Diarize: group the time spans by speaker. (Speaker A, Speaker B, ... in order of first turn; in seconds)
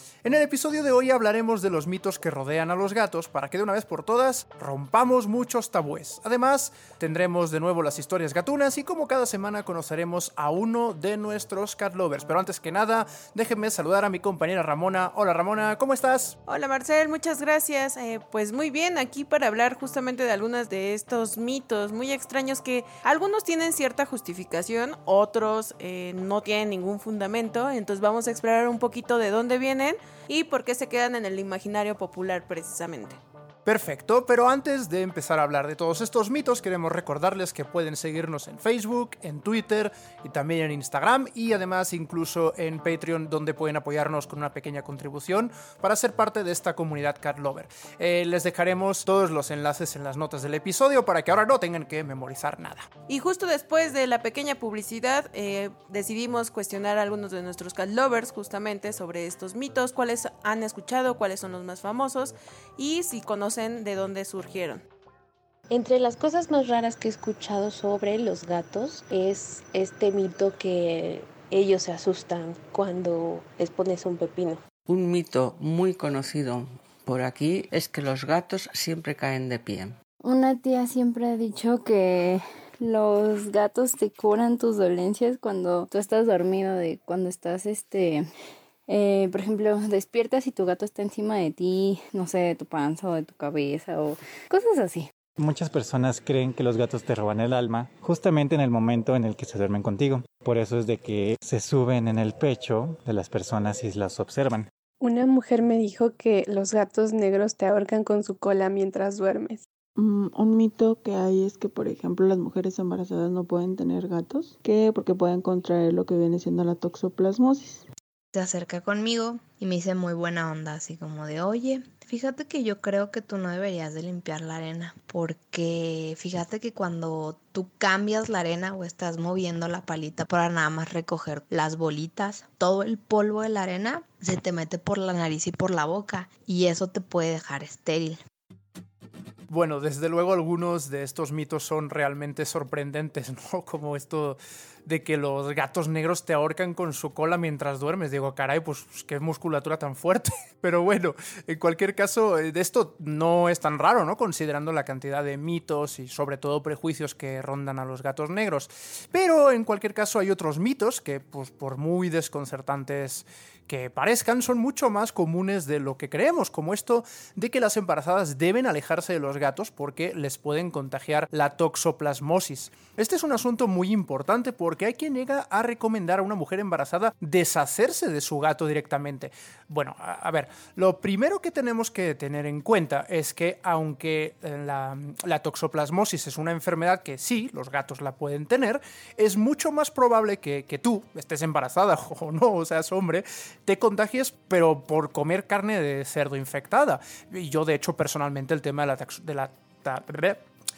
Speaker A: 0.2-16.4, 33.6-52.9, 139.5-200.4
Speaker B: 16.5-33.2, 53.1-64.8
Speaker C: 65.7-74.6
Speaker D: 74.9-80.0
Speaker E: 80.2-88.2, 88.9-95.1
Speaker F: 95.4-104.7
Speaker G: 105.0-109.6
Speaker H: 110.0-117.9
Speaker I: 118.3-138.2